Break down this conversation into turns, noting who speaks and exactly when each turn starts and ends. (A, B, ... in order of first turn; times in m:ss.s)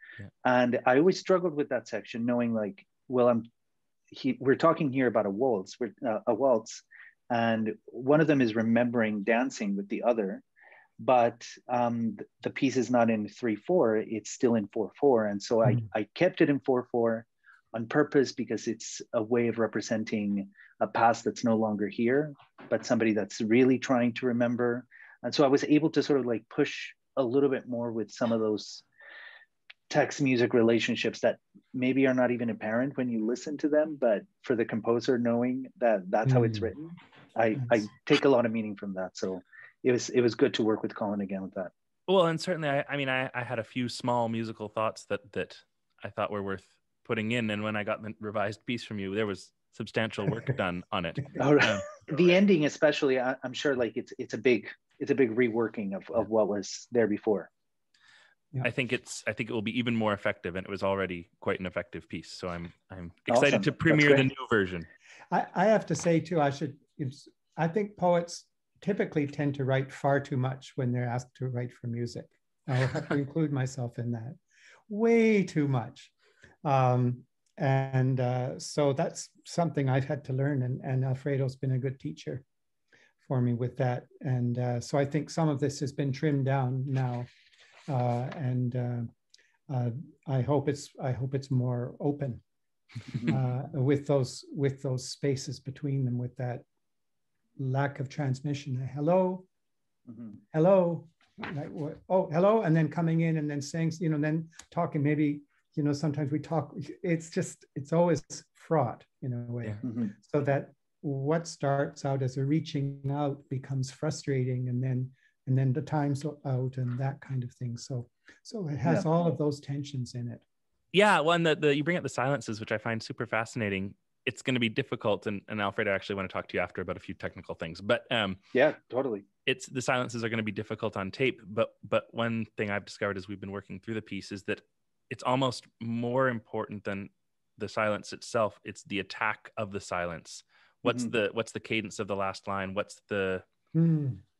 0:00.4-0:03.4 A
0:04.1-0:10.4 A
0:11.0-0:28.8 A
0:29.9-0:41.7 A
0:36.2-0:36.7 B
0:42.1-0:52.3 C
0:51.3-0:57.5 A
0:58.6-1:04.9 C
1:03.3-1:04.3 A
1:05.3-1:16.1 B
1:16.6-1:22.4 B
1:23.2-1:27.3 B
1:27.9-1:29.1 B
1:29.7-1:32.4 B
1:33.2-1:36.6 B
1:37.6-1:39.4 B
1:40.5-2:00.4 B
1:49.8-1:50.1 A
2:00.9-2:08.4 C
2:08.5-2:09.3 A
2:09.4-2:23.4 C
2:20.8-2:21.1 A
2:23.7-2:24.2 B